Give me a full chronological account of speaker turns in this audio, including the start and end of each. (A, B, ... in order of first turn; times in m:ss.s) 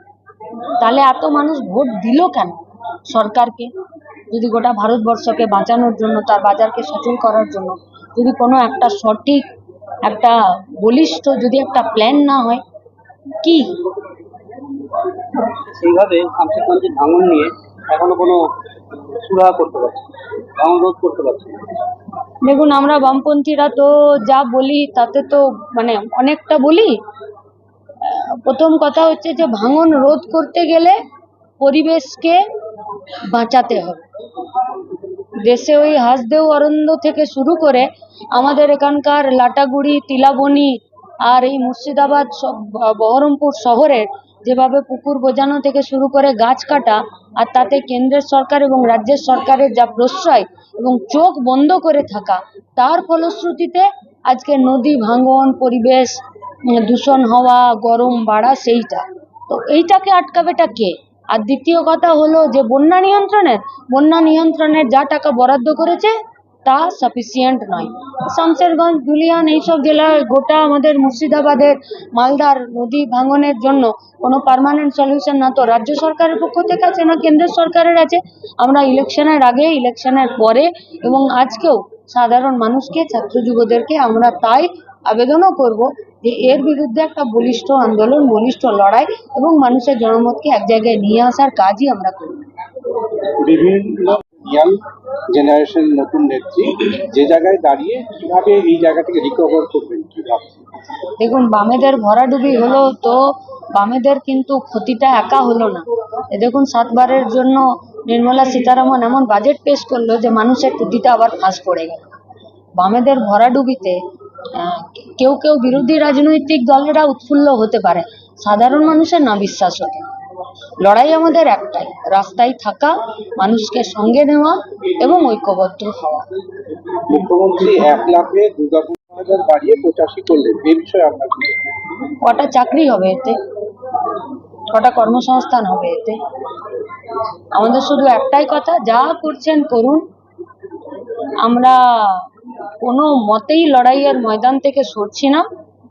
0:00.8-0:03.7 A
0:04.3-0:09.5 A
0:10.0-0:12.6 A
0:13.4-0:13.8 A
0:15.5-0:20.0 B
0:20.6-0:21.6 B
0:22.4-0:27.0 A
0:28.0-0:31.0 A
0:31.6-0:32.4 A
0:33.3-0:34.0 A
0:35.4-1:32.4 A
1:33.4-1:40.6 C
1:41.2-1:52.1 A
1:52.8-1:54.0 A
1:54.5-2:00.1 A
2:00.8-2:06.3 A
2:07.0-2:11.7 C
2:12.2-2:13.4 A
2:14.7-2:16.2 A
2:17.5-2:20.0 A
2:21.4-2:25.5 A